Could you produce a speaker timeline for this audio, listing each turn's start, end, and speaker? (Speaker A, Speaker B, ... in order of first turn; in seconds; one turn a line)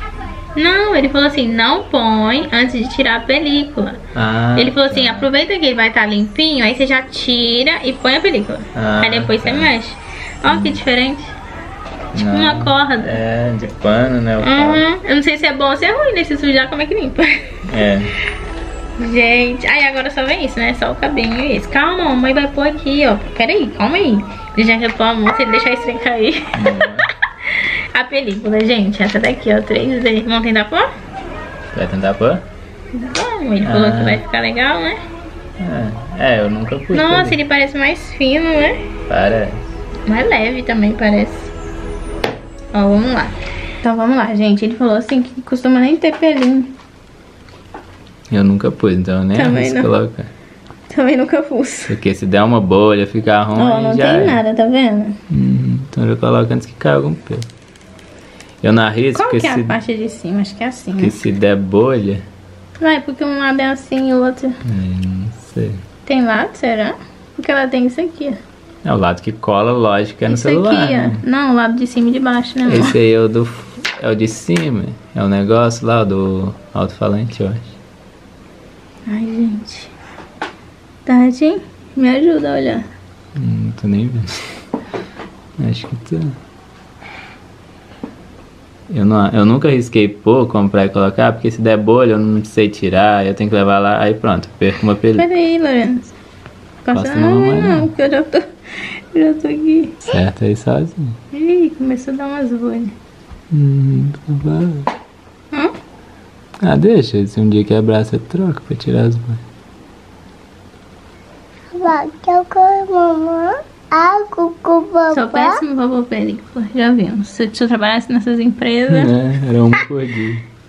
Speaker A: 0.5-4.0
Speaker B: 4.1-5.3
Speaker A: 4.5-11.3
Speaker B: 8.7-9.7
Speaker B: 10.5-10.8
Speaker B: 12.1-14.8
Speaker A: 12.1-13.2
Speaker A: 14.4-17.5
Speaker B: 17.6-18.1
Speaker A: 19.0-30.9
Speaker B: 26.5-27.1
Speaker B: 31.7-32.4
Speaker A: 32.9-35.0
Speaker B: 33.6-34.2
Speaker B: 35.6-37.4
Speaker A: 36.9-38.8
Speaker B: 39.1-39.6
Speaker A: 40.1-41.5
Speaker A: 42.7-46.7
Speaker B: 48.3-50.3
Speaker A: 49.3-49.9
Speaker A: 50.9-51.9
Speaker B: 51.9-54.4
Speaker A: 53.5-55.2
Speaker B: 55.3-57.5
Speaker B: 58.6-59.8
Speaker A: 59.1-61.1
Speaker B: 61.0-62.2
Speaker A: 62.8-64.6
Speaker B: 64.6-65.8
Speaker A: 66.0-68.4
Speaker B: 68.8-71.2
Speaker A: 70.3-73.0
Speaker B: 72.7-77.8
Speaker A: 79.1-79.9
Speaker A: 81.0-82.9
Speaker B: 83.3-84.4
Speaker B: 85.6-86.4
Speaker B: 88.9-95.3
Speaker A: 95.2-96.1
Speaker A: 96.8-100.1
Speaker B: 96.9-97.9
Speaker B: 100.0-101.2
Speaker A: 101.3-102.9
Speaker B: 103.5-104.9
Speaker B: 106.6-109.4
Speaker C: 111.7-115.6
Speaker A: 115.1-119.1
Speaker B: 118.9-120.5